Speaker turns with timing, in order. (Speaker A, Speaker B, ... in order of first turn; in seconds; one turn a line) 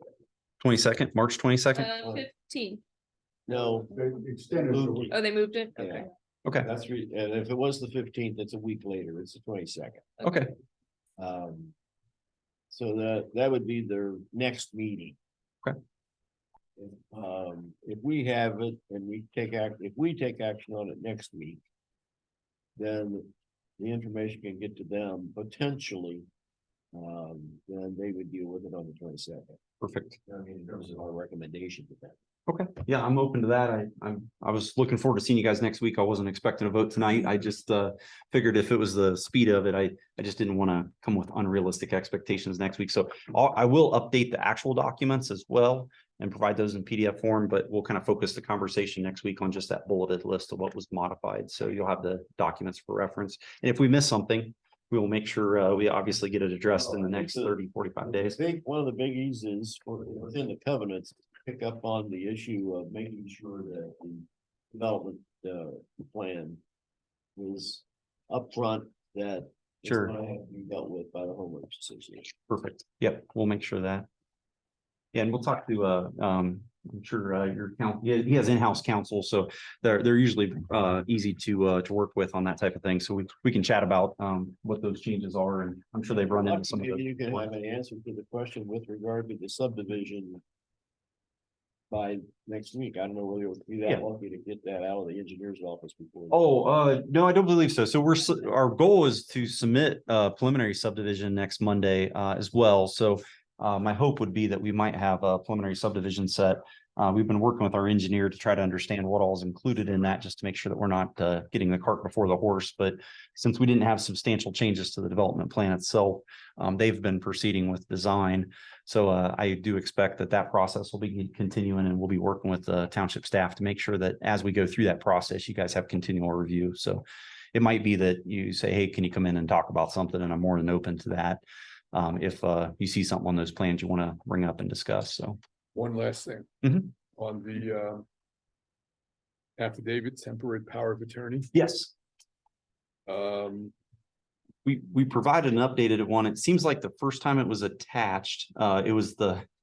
Speaker A: 0.6-1.9
Speaker B: 1.7-2.8
Speaker C: 3.5-5.1
Speaker B: 5.1-6.1
Speaker C: 5.8-6.0
Speaker C: 6.6-10.2
Speaker A: 10.2-10.5
Speaker C: 11.2-11.7
Speaker C: 12.7-15.2
Speaker C: 16.8-21.6
Speaker C: 22.8-26.2
Speaker C: 26.9-29.6
Speaker A: 29.8-30.2
Speaker C: 30.2-32.1
Speaker A: 32.5-58.4
Speaker C: 56.7-66.6
Speaker C: 67.3-72.3
Speaker A: 69.8-70.1
Speaker A: 72.5-74.1
Speaker A: 75.1-87.4
Speaker C: 86.1-90.4
Speaker C: 91.9-96.4
Speaker A: 96.3-131.4
Speaker A: 131.9-135.4
Speaker D: 135.7-136.5
Speaker A: 136.6-136.9
Speaker D: 137.1-138.0
Speaker D: 139.6-141.5
Speaker A: 141.5-141.9
Speaker D: 143.1-143.7
Speaker A: 144.6-149.5